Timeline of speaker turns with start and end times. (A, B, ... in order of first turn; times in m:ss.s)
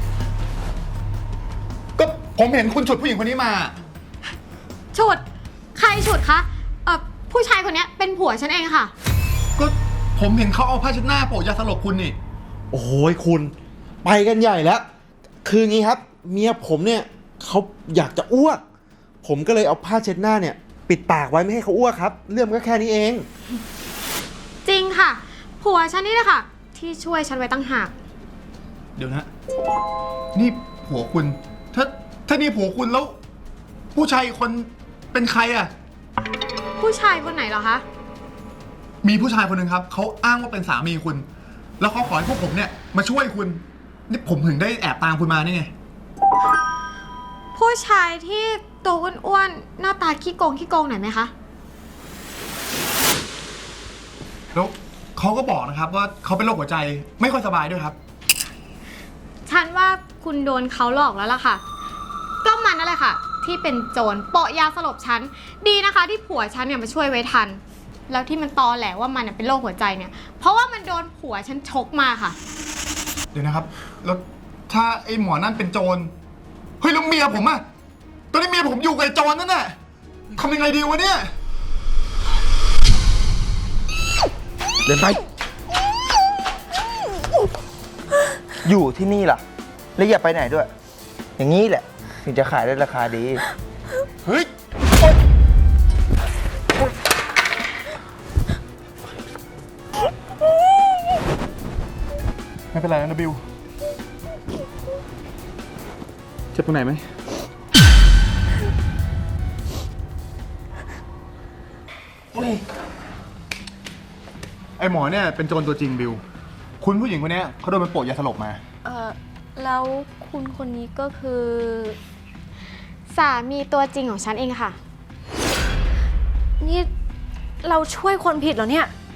0:02.0-0:03.8 A
0:04.9-0:05.2 B
0:05.7-0:08.9 B
0:09.6-0:12.2 A
0:12.7-0:13.5 C
0:14.0-0:14.8 C
0:15.4-0:18.6 C
0:19.2-0:23.3 C
0:24.6-0:27.9 B
0:29.0-0:29.3 A
0:30.3-0:33.2 A
0:33.9-0:35.7 A
0:36.8-0:37.8 B
0:39.0-0:41.2 A
0:41.8-0:45.7 A
0:47.5-0:51.3 B
0:54.5-0:58.0 A
0:59.4-1:01.6 B
1:02.4-1:12.4 B
1:13.3-1:16.1 A
1:16.8-1:17.6 A
1:18.3-1:19.7 A
1:20.3-1:21.3 A
1:24.8-1:25.2 D
1:28.6-1:29.4 D
1:30.0-1:30.7 D
1:31.4-1:33.4 D
1:34.2-1:34.5 A
1:42.7-1:43.4 A
1:46.5-1:47.0 A
1:52.3-1:52.6 D
1:54.8-1:56.2 A
1:56.8-1:58.6 A
1:58.8-2:02.0 E
2:03.1-2:04.8 B
2:06.6-2:06.9 E
2:07.6-2:08.9 E